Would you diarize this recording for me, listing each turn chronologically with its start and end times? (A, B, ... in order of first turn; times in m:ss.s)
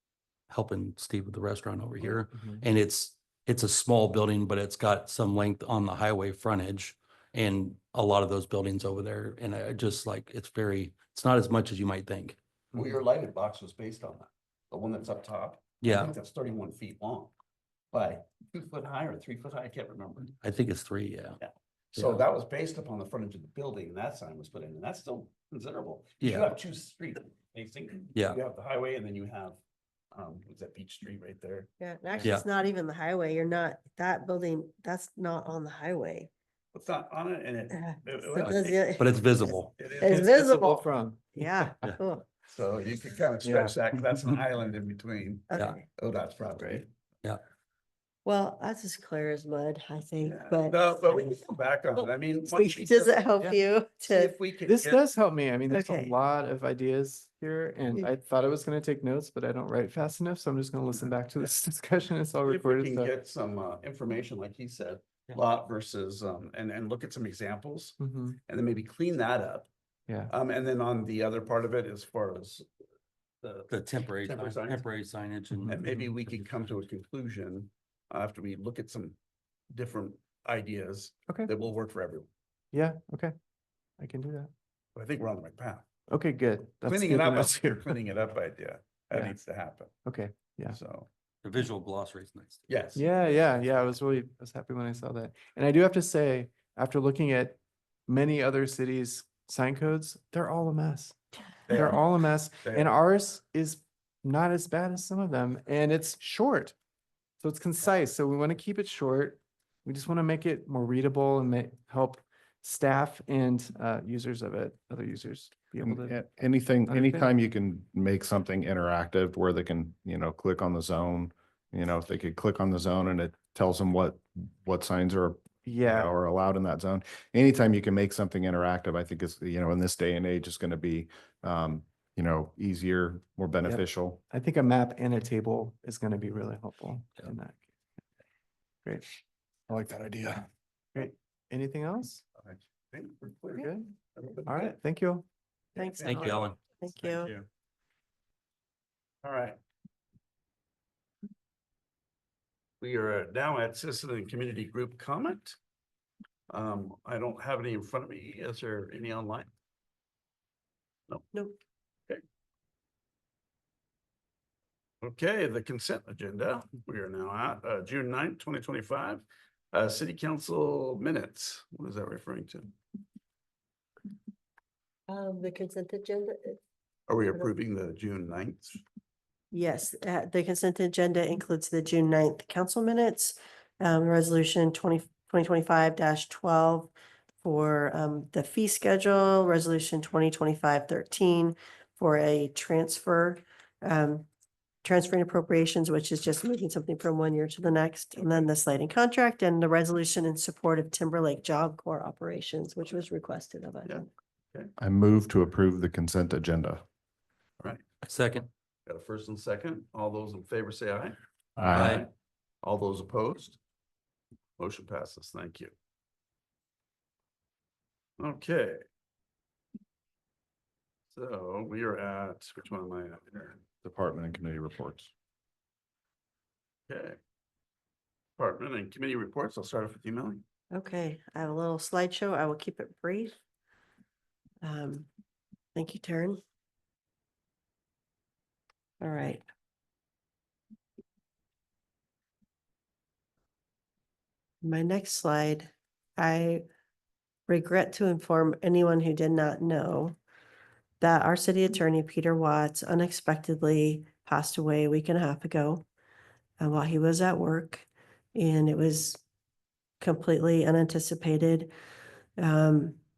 0:00.5-0:12.4 A
0:02.3-0:02.6 B
0:12.7-0:17.3 C
0:15.8-0:16.1 A
0:17.9-0:20.4 C
0:20.3-0:21.4 A
0:21.4-0:29.6 C
0:21.9-0:22.2 A
0:26.2-0:26.6 A
0:28.1-0:28.4 A
0:30.1-0:31.7 C
0:31.8-0:36.3 D
0:36.7-0:38.8 C
0:37.7-0:42.3 D
0:38.4-0:39.8 A
0:39.7-0:40.5 C
0:40.1-0:41.9 B
0:42.4-0:46.9 C
0:43.4-0:43.8 B
0:45.5-0:45.9 D
0:48.2-0:50.8 D
0:50.2-0:53.2 C
0:52.0-0:54.3 D
0:54.0-0:55.1 C
0:54.6-1:03.1 B
0:55.7-0:56.2 D
1:00.9-1:01.6 C
1:02.4-1:09.7 C
1:08.0-1:08.4 B
1:10.1-1:10.3 B
1:10.3-1:12.7 C
1:13.4-1:14.9 C
1:13.7-1:16.0 A
1:15.6-1:16.0 B
1:15.7-1:19.2 C
1:19.7-1:22.3 C
1:22.7-1:23.3 B
1:24.0-1:24.5 B
1:24.9-1:25.8 C
1:26.1-1:28.0 B
1:26.8-1:30.0 C
1:29.1-1:29.4 B
1:30.0-1:30.8 B
1:30.7-1:31.1 C
1:31.4-1:32.7 A
1:32.7-1:33.1 C
1:33.0-1:41.2 B
1:41.6-1:43.0 C
1:41.7-1:46.7 B
1:47.4-1:56.2 B
1:55.8-2:14.2 E
1:56.8-1:57.3 B
2:05.6-2:06.1 B
2:13.6-2:17.7 B
2:18.8-2:19.2 B
2:19.7-2:22.2 B
2:22.3-2:24.8 C
2:23.6-2:23.8 B
2:24.4-2:25.2 B
2:25.8-2:27.3 D
2:25.8-2:27.5 C
2:26.0-2:26.5 A
2:29.2-2:29.6 C
2:32.8-2:35.6 C
2:36.5-2:39.5 C
2:45.0-2:52.7 C
2:55.1-2:56.6 D
2:57.1-2:58.8 C
2:59.5-3:14.3 D
3:14.8-3:24.0 D
3:23.8-3:24.7 C
3:24.8-3:26.8 E
3:27.6-3:27.8 C
3:28.0-3:28.5 A
3:28.8-3:31.2 C
3:31.6-3:32.0 E
3:31.7-3:32.1 C
3:31.8-3:32.0 A
3:32.6-3:33.6 C
3:34.6-3:35.7 C
3:38.2-3:38.8 C
3:41.1-3:43.6 C
3:43.8-3:45.1 E
3:46.9-3:47.2 C
3:48.4-3:50.4 C
3:50.7-3:53.4 D
3:54.6-3:55.1 D
3:55.7-3:56.4 D
3:59.0-3:59.4 D
4:04.6-4:06.6 D
4:07.5-4:10.2 D
4:11.0-4:15.8 D
4:16.6-4:19.2 D
4:20.0-4:21.7 D
4:22.4-4:23.0 D